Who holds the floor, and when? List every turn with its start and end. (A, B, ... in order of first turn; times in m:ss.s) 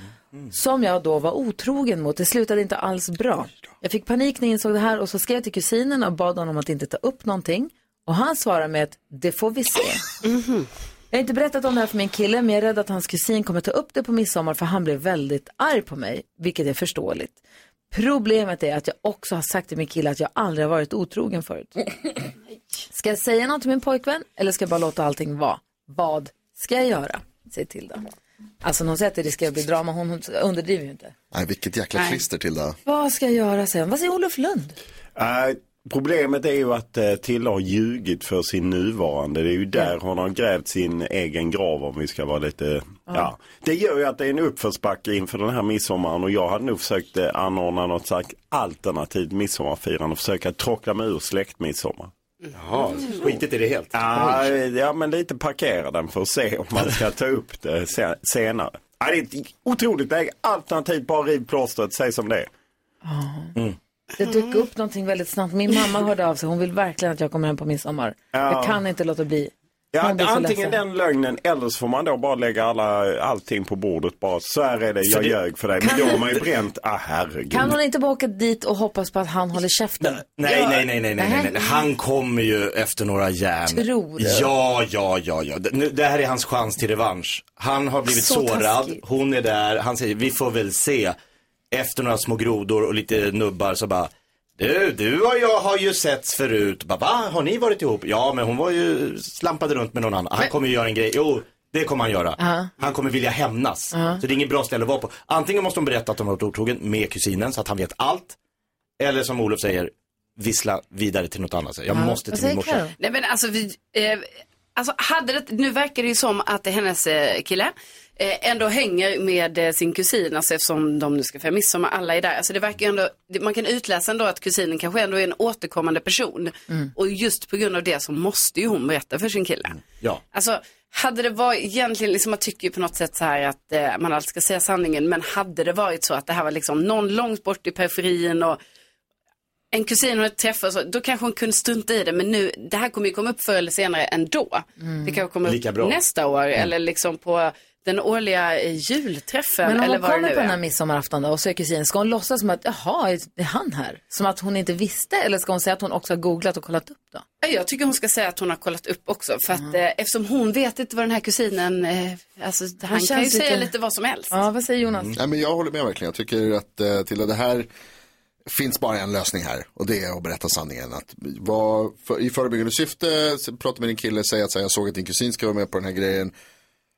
0:00.5-0:10.1 A
0:10.2-0:10.6 B
0:11.1-0:17.4 A
0:17.9-0:21.9 A
0:22.9-0:28.0 A
0:28.6-0:31.1 A
0:31.3-0:32.8 C
0:32.8-0:34.8 A
0:35.2-0:52.1 D
0:52.5-0:54.0 E
0:53.9-1:02.5 D
1:03.0-1:03.5 A
1:04.2-1:10.8 A
1:08.3-1:08.8 D
1:09.9-1:17.7 D
1:15.0-1:16.2 E
1:15.8-1:16.3 A
1:17.5-1:21.7 A
1:20.2-1:31.2 E
1:23.7-1:24.5 A
1:28.1-1:29.0 A
1:31.7-1:48.4 E
1:42.4-1:42.7 A
1:43.9-1:44.2 A
1:49.0-1:52.8 E
1:51.9-1:52.9 A
1:53.0-2:09.8 B
2:10.3-2:18.6 B
2:19.7-2:30.6 B
2:24.8-2:25.2 A
2:25.4-2:26.0 E
2:29.6-2:37.2 A
2:37.4-2:44.4 B
2:42.8-2:43.7 A
2:44.3-2:45.1 A
2:45.1-2:47.7 C
2:48.5-2:56.3 C